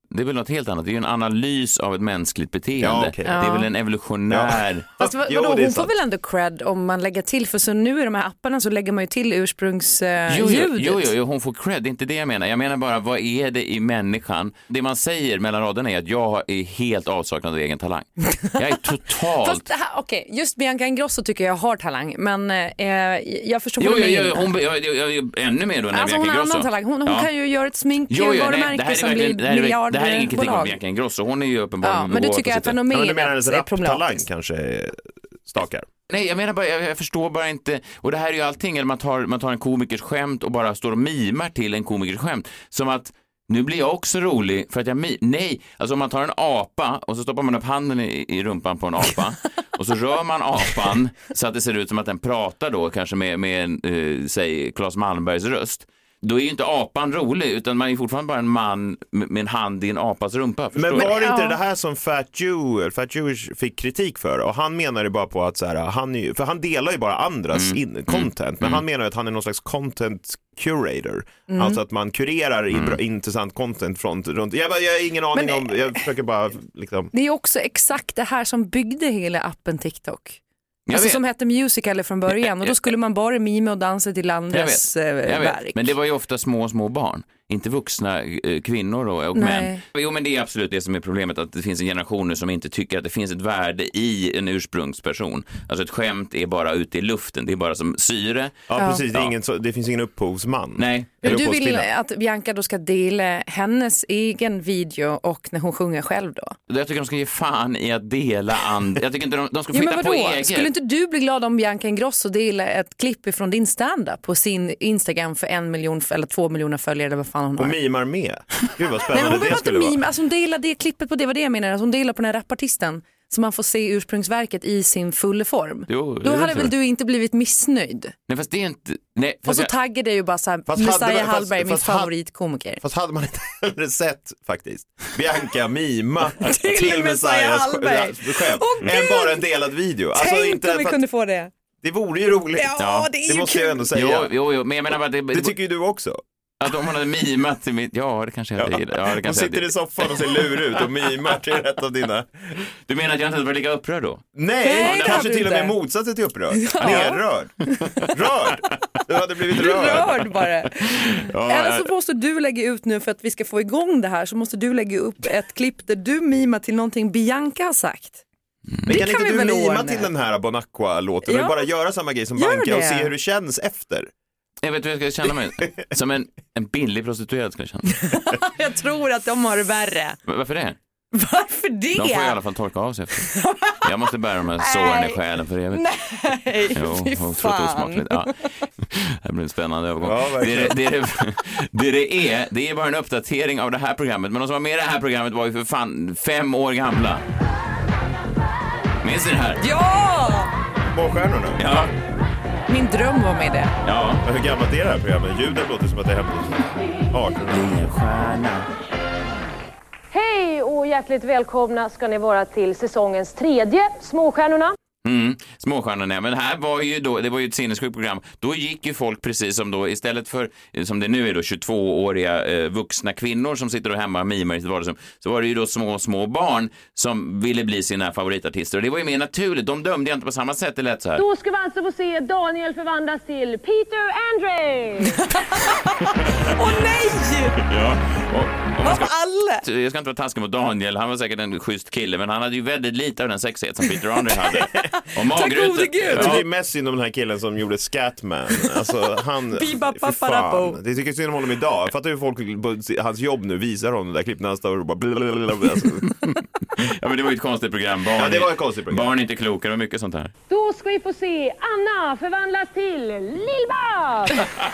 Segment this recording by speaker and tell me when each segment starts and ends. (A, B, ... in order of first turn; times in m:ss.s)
0:00.1-0:04.9 A
0:02.8-0:03.4 B
0:03.2-0:03.7 C
0:04.3-0:05.9 B
0:05.0-0:11.1 C
0:10.3-0:19.6 A
0:19.4-0:24.5 C
0:23.8-0:27.3 A
0:25.9-0:30.8 C
0:28.1-0:32.8 A
0:31.8-0:34.2 C
0:32.9-0:35.9 B
0:36.1-1:01.1 A
1:00.7-1:17.1 B
1:01.0-1:01.6 C
1:07.5-1:08.8 A
1:11.5-1:11.8 C
1:12.7-1:13.0 A
1:15.3-1:16.0 C
1:17.1-1:20.4 C
1:20.9-1:21.2 A
1:20.9-1:25.9 C
1:22.3-1:22.6 A
1:24.5-1:39.3 A
1:29.3-1:29.8 C
1:38.7-1:41.9 B
1:38.8-1:39.0 C
1:40.8-1:41.4 A
1:41.2-1:46.6 C
1:46.7-1:50.7 A
1:49.7-1:57.8 C
1:57.6-2:00.0 B
1:59.1-2:08.1 C
2:05.9-2:06.7 A
2:08.3-2:09.7 A
2:09.4-2:12.8 C
2:10.7-2:12.1 B
2:12.8-2:21.0 B
2:16.4-2:19.4 C
2:20.1-2:21.5 C
2:21.8-2:24.3 B
2:22.6-2:23.9 C
2:22.8-2:23.1 A
2:23.9-2:25.6 A
2:25.3-2:26.2 B
2:26.6-2:30.2 A
2:28.6-2:32.6 B
2:32.9-2:34.2 A
2:34.4-2:40.2 B
2:34.6-2:35.8 C
2:36.5-2:37.2 C
2:37.8-2:38.1 C
2:39.5-2:48.2 C
2:41.0-2:41.9 A
2:48.8-2:54.1 B
2:48.9-2:50.1 C
2:51.2-2:51.7 C
2:52.4-2:53.1 C
2:54.6-2:58.0 A
2:57.9-3:00.2 C
3:00.3-3:00.8 A
3:01.1-3:02.4 C
3:01.9-3:05.8 A
3:03.2-3:03.8 C
3:04.6-3:05.2 C
3:05.7-3:08.4 C
3:06.7-3:17.2 A
3:10.0-3:10.7 B
3:19.0-3:19.6 A
3:19.6-3:20.5 C
3:20.9-3:21.6 B
3:21.6-3:21.9 A
3:22.7-3:23.7 C
3:23.8-3:24.2 A
3:24.2-3:27.5 B
3:27.4-3:28.7 A
3:30.1-3:34.7 D
3:35.0-3:51.2 A
3:51.2-3:55.1 D
3:55.2-3:57.6 C
3:57.6-4:06.4 A
3:58.8-3:59.6 C
4:04.5-4:06.4 C
4:06.1-4:16.1 B
4:09.5-4:10.8 C
4:16.2-4:20.3 A
4:18.1-4:19.1 B
4:20.5-4:24.4 D